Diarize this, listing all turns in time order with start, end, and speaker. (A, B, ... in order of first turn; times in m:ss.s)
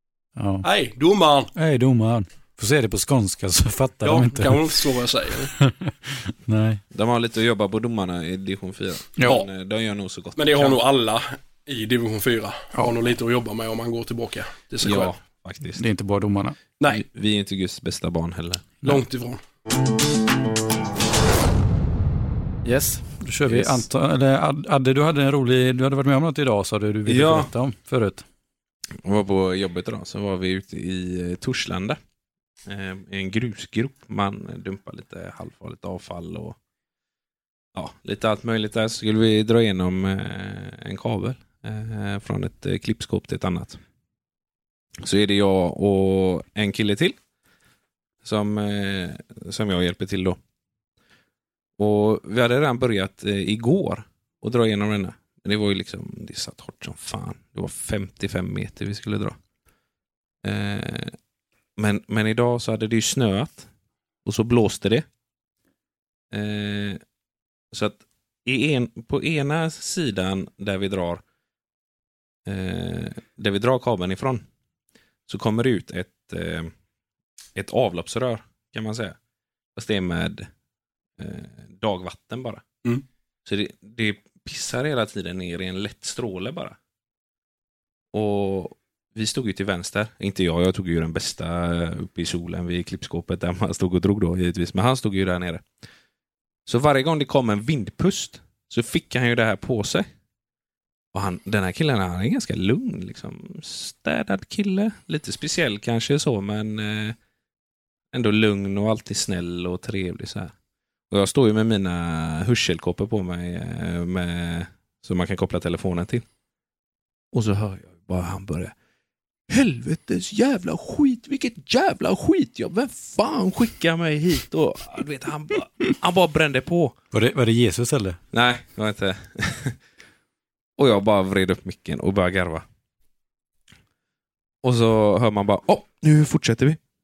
0:00.4-0:00.6 A
0:00.6-0:01.5 B
0:01.5-0:04.8 A
0:04.0-0:05.5 B
0:05.5-0:06.8 A
0:06.9-0:10.8 C
0:10.4-0:15.2 B
0:14.8-0:15.8 C
0:15.8-0:16.6 A
0:16.8-0:19.0 C
0:18.8-0:19.4 B
0:22.6-0:28.2 A
0:23.5-0:23.8 C
0:27.0-0:27.5 C
0:29.0-0:32.0 C
0:32.6-0:36.6 C
0:37.7-0:43.8 C
0:45.0-0:47.2 C
0:48.2-0:50.4 C
0:51.8-0:59.4 C
1:00.4-1:01.2 C
1:01.8-1:03.7 C
1:04.2-1:05.0 C
1:06.3-1:07.0 C
1:07.7-1:11.2 C
1:12.4-1:14.4 C
1:15.3-1:16.7 C
1:17.5-1:19.2 C
1:19.8-1:20.5 C
1:21.2-1:22.6 C
1:23.4-1:26.8 C
1:28.1-1:35.6 C
1:36.6-1:40.1 C
1:41.1-1:47.2 C
1:48.1-1:50.5 C
1:51.1-1:56.2 C
1:57.3-1:58.7 C
1:59.5-2:06.9 C
2:07.1-2:08.2 A
2:08.3-2:09.8 C
2:10.8-2:12.6 C
2:14.6-2:16.8 C